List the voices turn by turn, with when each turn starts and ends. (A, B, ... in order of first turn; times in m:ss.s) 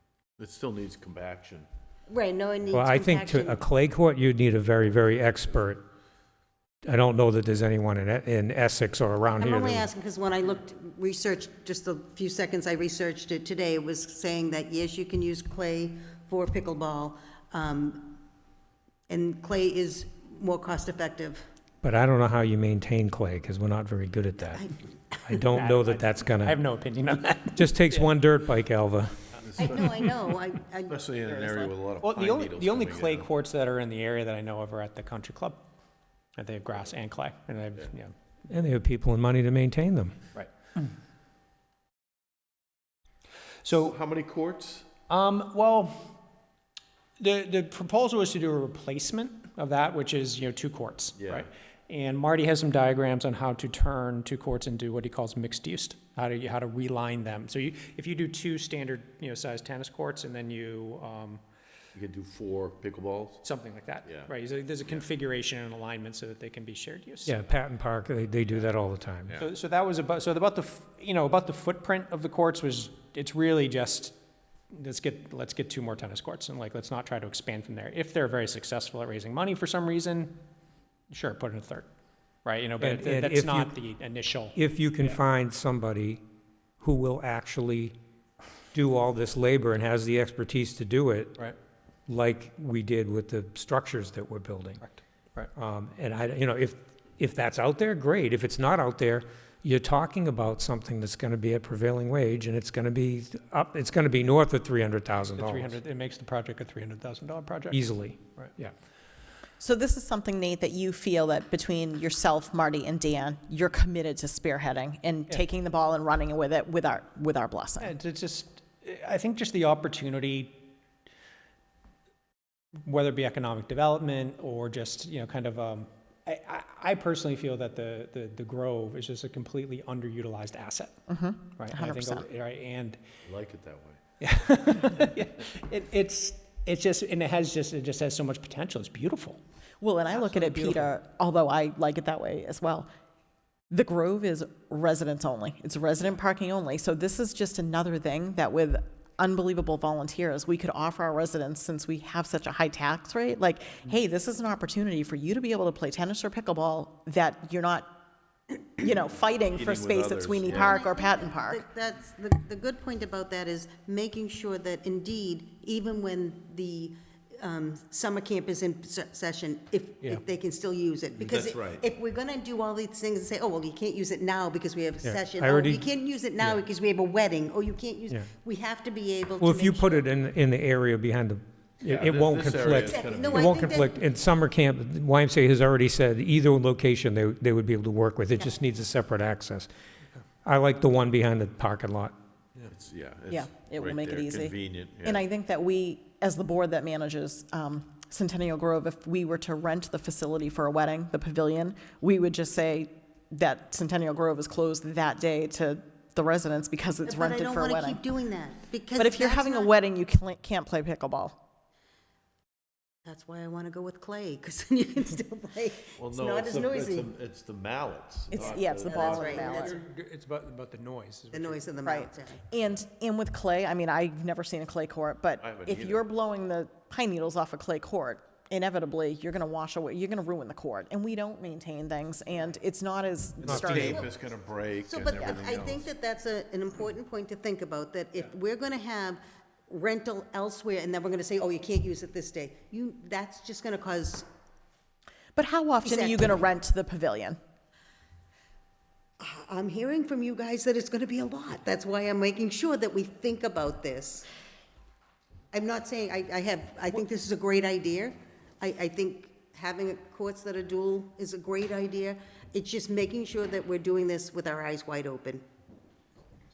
0:00.4-0:01.7 A
0:02.1-0:03.6 B
0:02.7-0:05.8 C
0:06.8-0:09.9 C
0:09.3-0:18.2 B
0:19.1-0:21.4 B
0:21.8-0:24.7 C
0:24.6-0:25.4 B
0:25.2-0:26.6 C
0:25.5-0:28.1 D
0:27.6-0:29.3 C
0:29.6-0:31.7 B
0:30.9-0:33.2 A
0:32.0-0:35.6 D
0:36.4-0:38.1 D
0:38.5-0:40.2 C
0:43.6-0:44.0 D
0:43.8-0:44.9 A
0:45.1-0:46.1 D
0:47.2-1:01.4 D
0:51.2-0:51.5 A
1:01.9-1:03.4 A
1:03.4-1:07.5 D
1:07.2-1:09.4 C
1:09.4-1:14.1 D
1:14.7-1:20.4 D
1:21.1-1:21.9 D
1:22.4-1:25.2 D
1:22.8-1:23.7 C
1:24.5-1:26.2 C
1:26.8-1:28.0 C
1:28.7-1:31.5 C
1:32.1-1:34.8 C
1:34.8-1:35.5 D
1:35.5-1:45.7 C
1:45.2-1:47.8 D
1:47.7-1:48.7 C
1:48.4-1:48.7 D
1:49.6-1:57.9 E
1:57.8-2:00.6 D
2:02.8-2:11.0 D
2:11.1-2:12.2 E
2:11.6-2:13.0 D
2:13.2-2:14.0 A
2:14.2-2:19.4 D
2:19.8-2:22.9 E
2:20.1-2:20.9 D
2:23.7-2:37.9 E
2:38.8-2:41.6 E
2:39.5-2:40.7 A
2:40.5-3:00.0 B
2:51.2-2:51.8 A
2:55.0-2:55.9 C
2:59.4-3:09.7 C
3:01.8-3:03.5 A
3:02.7-3:04.0 B
3:10.4-3:12.1 C
3:12.6-3:15.2 A
3:13.3-3:28.0 E
3:27.0-3:29.7 B
3:29.0-3:31.4 E
3:33.0-3:37.1 B
3:36.0-3:39.4 A
3:38.3-3:39.8 E
3:38.6-3:39.8 B
3:39.1-3:41.6 D
3:41.3-3:42.4 B
3:41.8-3:54.0 E
3:45.4-3:46.1 A
3:53.4-3:55.9 A
3:53.4-3:53.8 C
3:53.7-3:54.1 B
3:54.8-4:04.3 B
4:05.3-4:07.4 E
4:05.8-4:06.4 B
4:09.2-4:14.3 B
4:15.5-4:25.4 B